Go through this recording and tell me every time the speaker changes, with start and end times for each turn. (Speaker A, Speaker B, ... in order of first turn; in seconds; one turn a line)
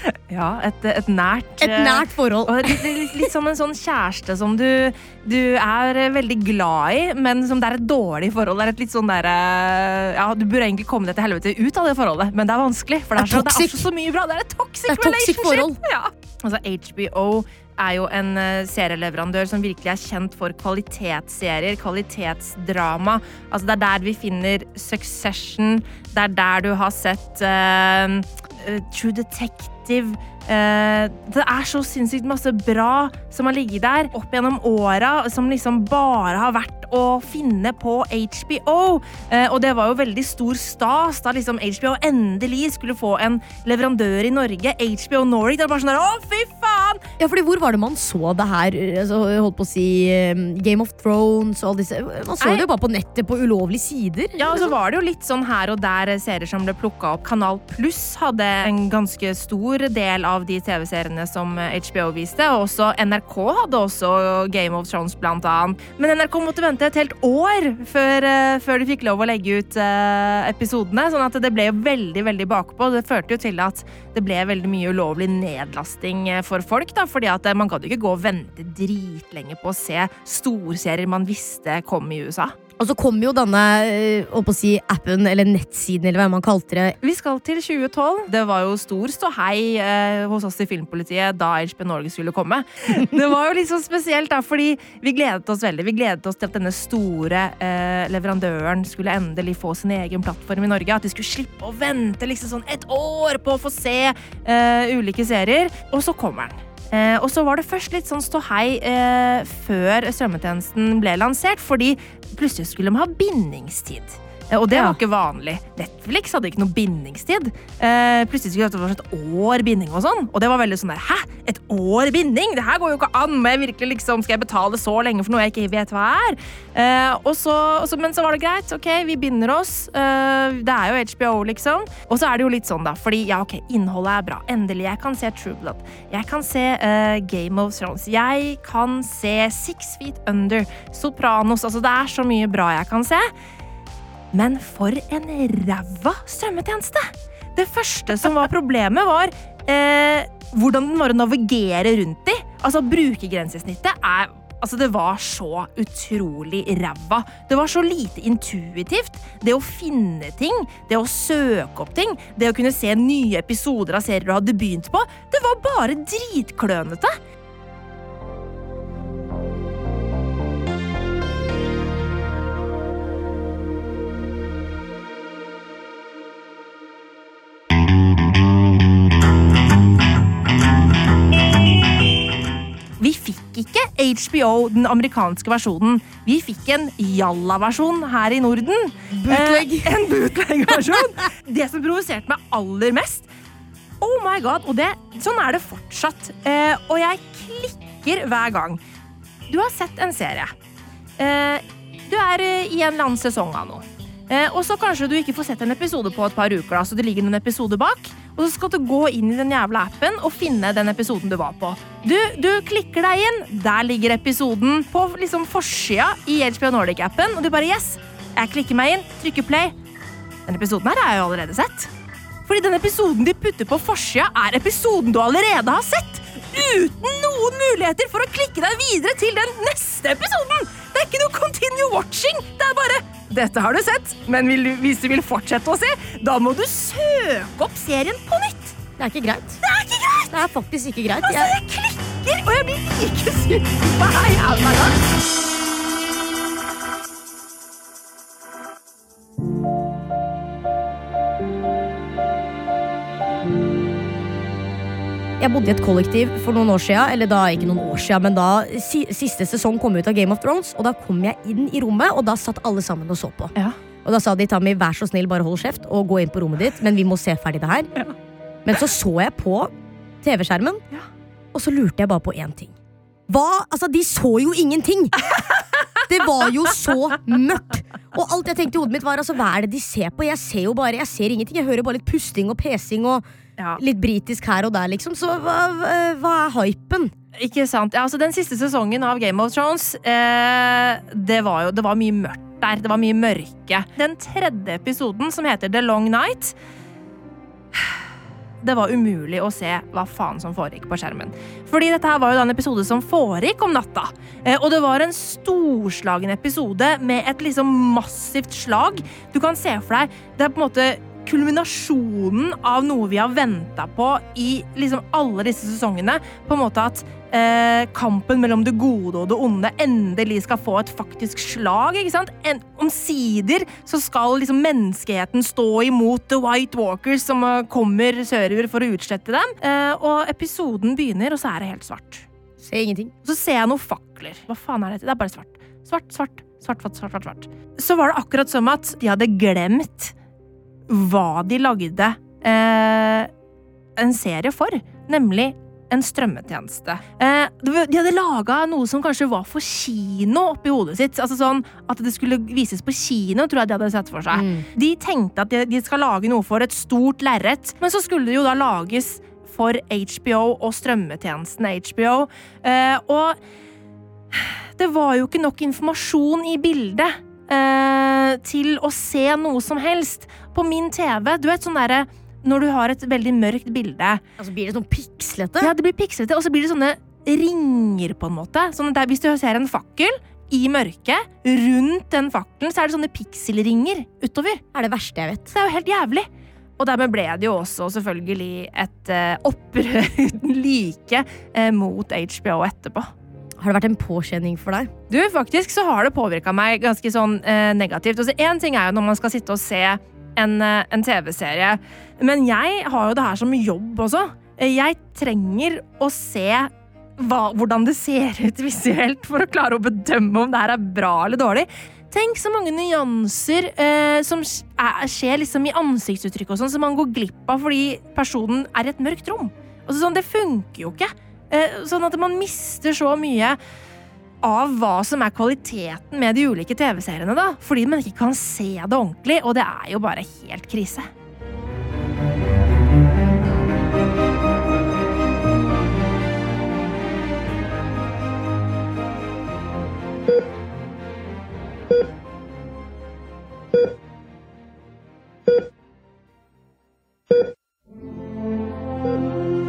Speaker A: 0.3-47.0
Speaker B: 1.6-2.8
Speaker B: 13.2-13.9
Speaker B: 14.9-15.8
Speaker B: 47.2-54.7
Speaker A: 52.4-52.7
Speaker A: 54.4-82.5
Speaker B: 82.8-87.0
Speaker A: 87.0-143.3
Speaker B: 114.7-115.0
Speaker A: 144.3-167.2
Speaker A: 183.0-193.3
Speaker B: 189.1-189.9
Speaker A: 194.0-198.8
Speaker A: 199.5-200.5
Speaker A: 201.2-219.8
Speaker A: 220.5-221.9
Speaker A: 222.5-238.8
Speaker B: 239.0-239.6
Speaker A: 239.6-240.3
Speaker B: 240.3-241.6
Speaker A: 241.2-245.0
Speaker B: 255.4-267.9
Speaker B: 268.6-270.8
Speaker B: 271.5-272.7
Speaker B: 273.3-275.2
Speaker B: 276.1-283.2
Speaker B: 283.8-287.1
Speaker A: 287.4-296.6
Speaker A: 298.6-332.3
Speaker B: 332.6-333.1
Speaker A: 333.2-340.1
Speaker A: 340.9-343.3
Speaker A: 344.0-363.4
Speaker B: 354.3-354.7
Speaker A: 364.3-374.2
Speaker B: 374.4-375.7
Speaker A: 375.6-384.6
Speaker B: 384.7-385.5
Speaker A: 385.5-386.3
Speaker A: 386.8-393.1
Speaker B: 393.6-394.9
Speaker A: 395.1-423.6
Speaker A: 424.4-431.1